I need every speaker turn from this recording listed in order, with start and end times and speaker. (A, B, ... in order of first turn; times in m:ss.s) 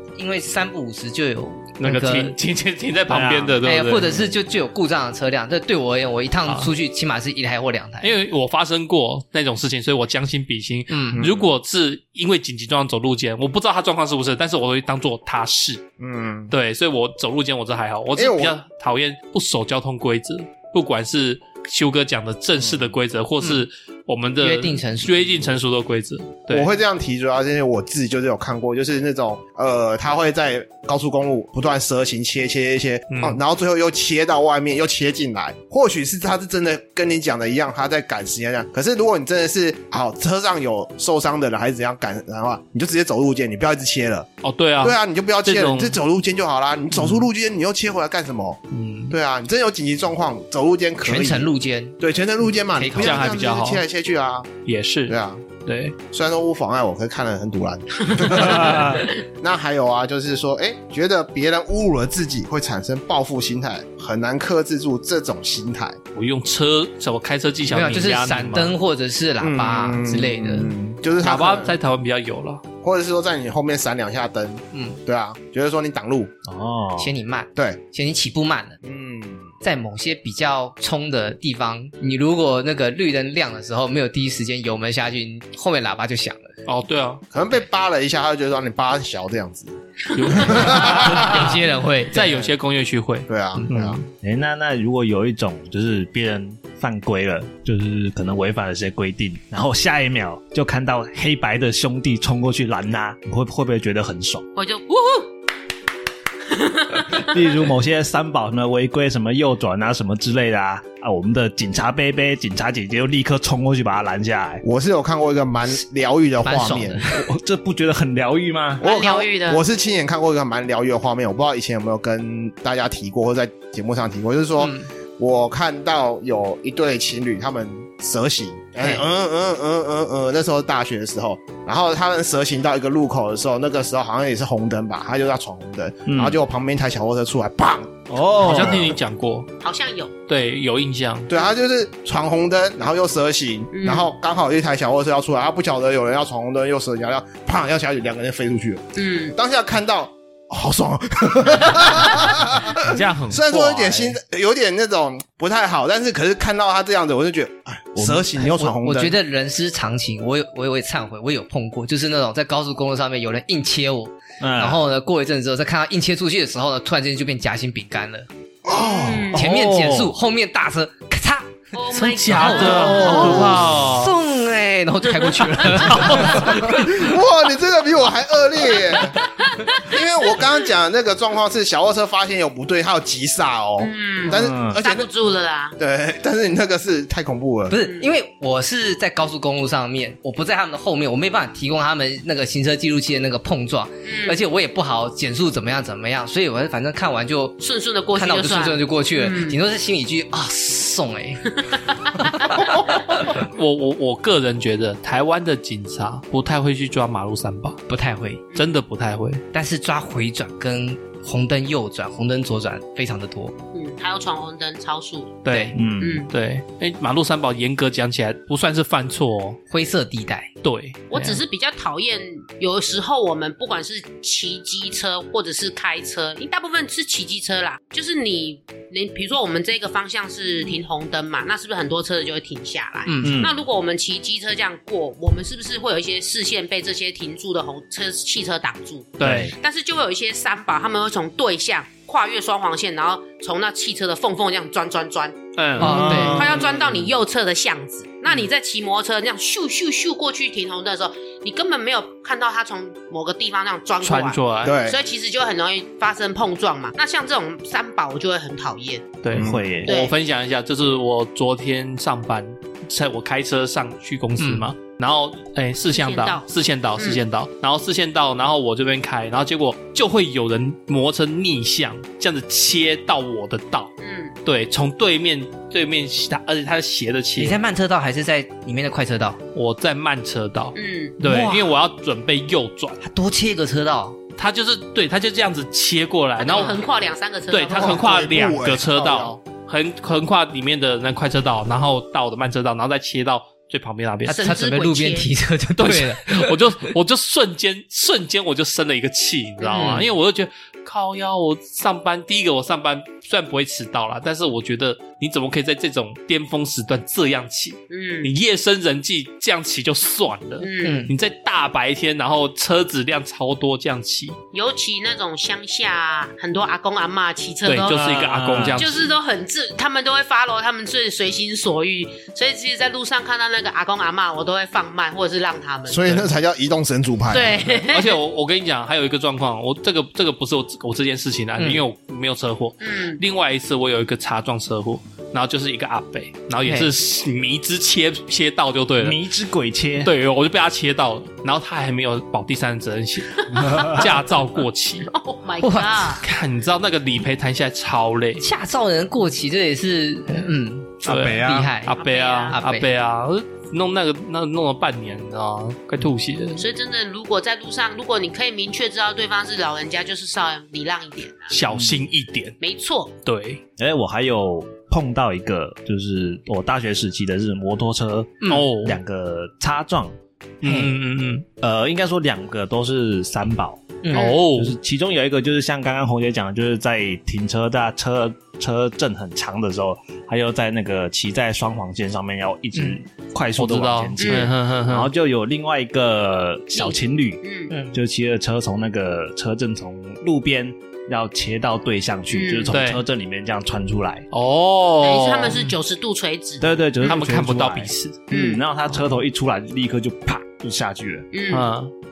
0:00.2-0:02.3 A
0:01.8-0:04.2 B
0:03.1-0:03.6 C
0:03.6-0:08.1 A
0:06.4-0:06.7 B
0:08.0-0:15.8 B
0:10.9-0:11.2 A
0:11.2-0:11.5 D
0:16.0-0:16.5 D
0:16.5-0:26.7 B
0:18.1-0:18.6 D
0:24.4-0:25.2 A
0:26.5-0:44.3 D
0:33.1-0:33.4 B
0:44.4-0:46.0 B
0:44.8-0:54.5 D
0:48.7-0:49.2 B
0:51.0-0:52.0 A
0:52.7-0:53.4 A
0:52.9-0:53.8 B
0:54.6-0:56.0 B
0:55.1-0:55.5 D
0:56.1-1:06.0 D
0:58.4-0:59.0 C
1:06.1-1:08.8 B
1:07.7-1:10.7 A
1:09.4-1:11.7 D
1:11.2-1:12.6 B
1:12.8-1:16.3 D
1:14.7-1:15.0 A
1:16.4-1:17.1 C
1:17.0-1:18.8 A
1:18.8-1:19.5 D
1:19.6-1:26.5 A
1:26.6-1:27.2 B
1:27.3-1:29.7 D
1:30.1-1:34.1 B
1:30.2-1:31.6 D
1:30.8-1:32.5 A
1:33.3-1:34.0 D
1:34.2-1:44.4 C
1:44.6-1:45.3 E
1:46.5-1:47.3 E
1:47.1-1:54.6 C
1:54.6-1:57.1 D
1:56.4-1:57.2 A
1:57.1-1:58.8 C
1:58.8-1:59.6 E
1:58.8-2:18.9 D
2:04.6-2:04.9 A
2:16.0-2:16.4 C
2:18.1-2:18.9 C
2:18.4-2:19.5 B
2:19.6-2:20.1 E
2:20.3-2:21.3 B
2:21.3-2:39.2 D
2:23.7-2:24.1 E
2:29.0-2:29.4 E
2:32.8-2:34.2 B
2:38.0-2:38.2 C
2:38.4-2:48.3 A
2:44.4-2:44.8 C
2:48.6-2:49.3 D
2:48.7-2:49.4 E
2:49.3-2:50.1 C
2:49.3-2:56.8 A
2:51.7-2:53.4 E
2:51.9-2:54.1 B
2:52.9-2:53.7 D
2:55.6-2:56.8 B
2:56.2-2:59.2 D
2:59.4-2:59.9 E
2:59.8-3:05.1 D
3:03.8-3:05.8 E
3:04.3-3:04.8 C
3:05.8-3:07.8 D
3:07.7-3:17.6 A
3:07.8-3:08.1 E
3:14.0-3:14.4 E
3:17.6-3:19.6 E
3:18.1-3:23.4 A
3:22.2-3:22.6 E
3:23.2-3:27.8 B
3:27.9-3:28.5 A
3:28.5-3:29.4 B
3:29.5-3:33.6 A
3:33.7-3:35.4 E
3:35.4-3:39.6 B
3:35.5-3:35.8 A
3:35.7-3:36.2 C
3:36.0-3:36.3 E
3:39.7-3:40.5 A
3:40.6-3:41.4 B
3:41.1-4:19.1 E
3:53.1-3:53.4 A
3:53.2-3:53.5 C
3:59.2-3:59.5 B
3:59.2-3:59.5 C
4:05.6-4:06.6 B
4:05.8-4:06.5 A
4:05.8-4:06.6 C
4:14.0-4:14.8 B
4:14.6-4:15.0 D
4:19.2-4:37.6 B
4:19.3-4:20.0 C
4:19.3-4:19.6 D
4:19.8-4:20.1 E
4:24.4-4:24.7 A
4:25.9-4:27.2 E
4:34.0-4:34.3 E
4:37.4-4:39.4 A
4:39.5-4:43.0 B
4:40.7-4:41.2 E
4:41.2-4:41.8 A
4:43.0-4:44.2 A
4:44.4-4:46.8 B
4:46.4-4:48.4 E
4:47.5-4:54.4 B
4:47.7-4:49.4 D
4:54.3-4:55.3 E
4:54.3-4:56.8 A
4:55.8-5:14.4 B
4:59.6-5:00.0 E
4:59.6-5:00.1 A
5:07.9-5:08.3 E
5:10.6-5:11.1 E
5:10.8-5:11.1 A
5:14.5-5:18.0 E
5:17.6-5:19.1 B
5:17.8-5:18.9 C
5:18.7-5:26.3 E
5:25.9-5:27.7 D
5:27.3-5:28.2 E
5:27.8-5:39.2 B
5:31.6-5:31.8 A
5:32.8-5:33.2 E
5:36.6-5:36.9 A
5:39.0-5:40.1 C
5:40.0-5:45.1 B
5:43.3-5:44.0 E
5:43.6-5:44.0 C
5:45.1-5:46.2 E
5:45.6-5:46.2 A
5:46.2-5:48.4 B
5:48.4-5:51.9 A
5:51.0-5:51.7 C
5:51.0-5:56.6 B
5:51.9-5:52.6 E
5:52.5-5:52.8 A
5:56.6-6:01.6 E
6:01.5-6:02.6 B
6:01.7-6:02.1 C
6:02.6-6:03.1 E
6:03.2-6:03.6 B
6:03.8-6:10.2 C
6:08.4-6:08.7 A
6:08.5-6:09.0 B
6:10.6-6:11.4 B
6:10.6-6:10.9 A
6:11.6-6:14.0 C
6:14.0-6:14.4 A
6:14.1-6:14.8 B
6:14.1-6:14.4 E
6:14.5-6:34.3 C
6:23.6-6:25.1 B
6:24.2-6:24.5 E
6:26.7-6:27.7 E
6:27.7-6:28.0 A
6:32.3-6:32.7 E
6:32.7-6:33.0 B
6:34.3-6:35.6 B
6:35.0-6:37.2 E
6:35.5-6:35.7 A
6:36.6-6:41.2 C
6:37.0-6:38.2 B
6:38.3-6:38.6 E
6:41.3-6:41.7 E
6:41.5-6:41.9 B